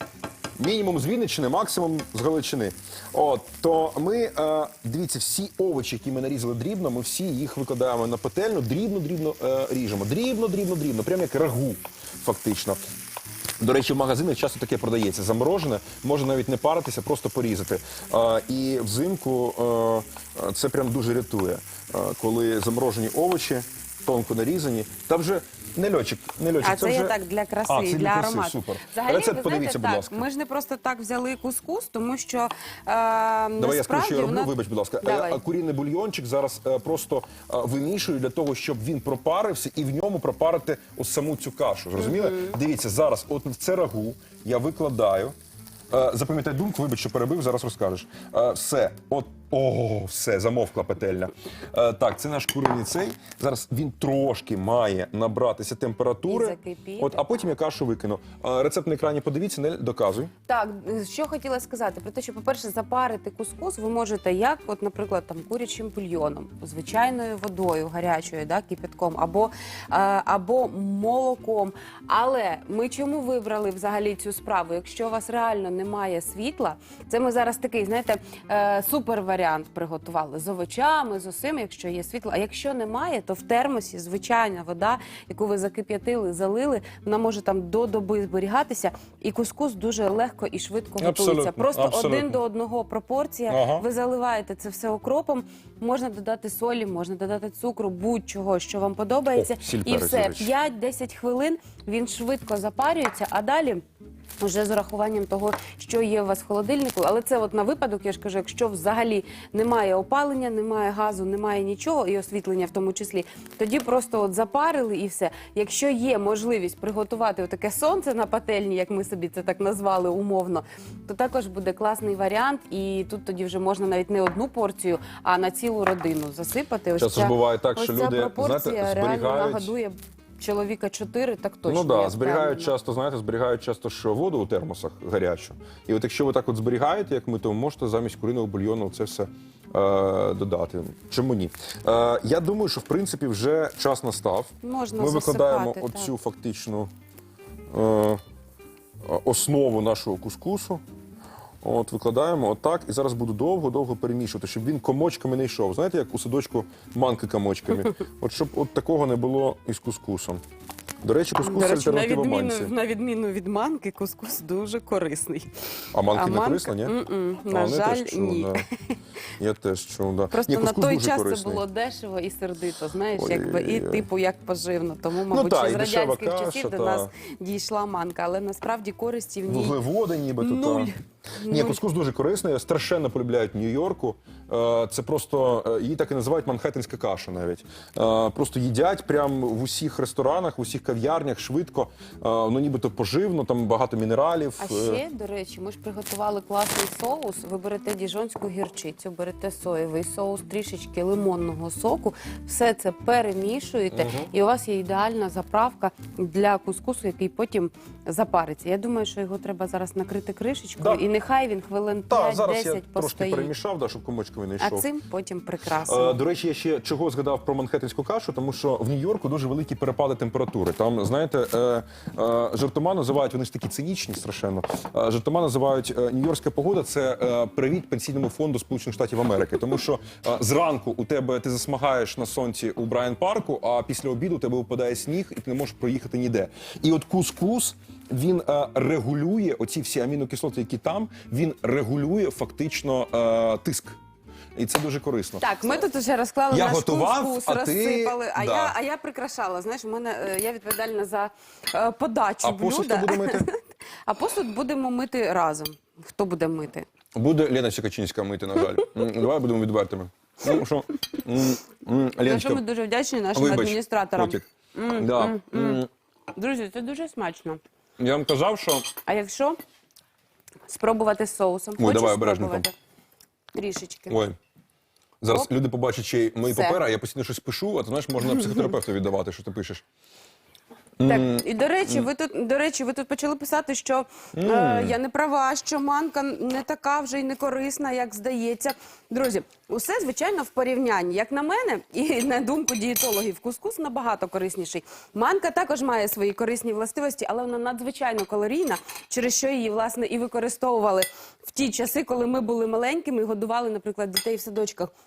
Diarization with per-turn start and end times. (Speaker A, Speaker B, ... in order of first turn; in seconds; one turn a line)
Speaker A: 0.6-12.8
Speaker A: 13.6-27.2
Speaker B: 26.6-35.4
Speaker A: 27.7-30.2
Speaker A: 33.6-45.3
Speaker B: 42.0-42.5
Speaker A: 45.9-60.3
Speaker B: 56.3-57.3
Speaker B: 60.5-103.8
Speaker A: 91.0-92.4
Speaker A: 93.5-93.8
Speaker A: 99.3-100.5
Speaker B: 104.4-132.7
Speaker A: 127.0-129.7
Speaker A: 131.7-146.9
Speaker B: 144.6-146.1
Speaker A: 147.7-148.2
Speaker A: 149.0-150.8
Speaker A: 151.6-160.4
Speaker A: 161.0-162.7
Speaker B: 161.4-165.5
Speaker A: 165.9-166.9
Speaker B: 166.1-168.6
Speaker A: 167.5-168.6
Speaker A: 169.4-171.6
Speaker B: 170.3-179.8
Speaker A: 173.1-174.1
Speaker A: 175.3-177.1
Speaker A: 179.5-180.9
Speaker B: 180.4-181.8
Speaker A: 181.4-195.0
Speaker B: 194.6-213.5
Speaker A: 203.9-204.3
Speaker A: 212.1-214.9
Speaker B: 214.6-216.2
Speaker A: 215.8-244.0
Speaker A: 244.6-245.5
Speaker B: 245.4-256.9
Speaker A: 246.5-248.8
Speaker A: 252.4-253.5
Speaker A: 257.1-262.6
Speaker B: 262.2-265.8
Speaker A: 263.3-264.4
Speaker A: 265.0-265.9
Speaker B: 266.4-267.6
Speaker A: 268.0-268.9
Speaker B: 269.1-269.6
Speaker B: 270.7-272.7
Speaker A: 271.8-272.7
Speaker B: 273.5-274.2
Speaker A: 274.1-274.4
Speaker A: 275.2-279.8
Speaker B: 276.4-276.8
Speaker B: 278.2-278.6
Speaker A: 281.0-282.1
Speaker B: 281.0-304.9
Speaker A: 284.4-285.0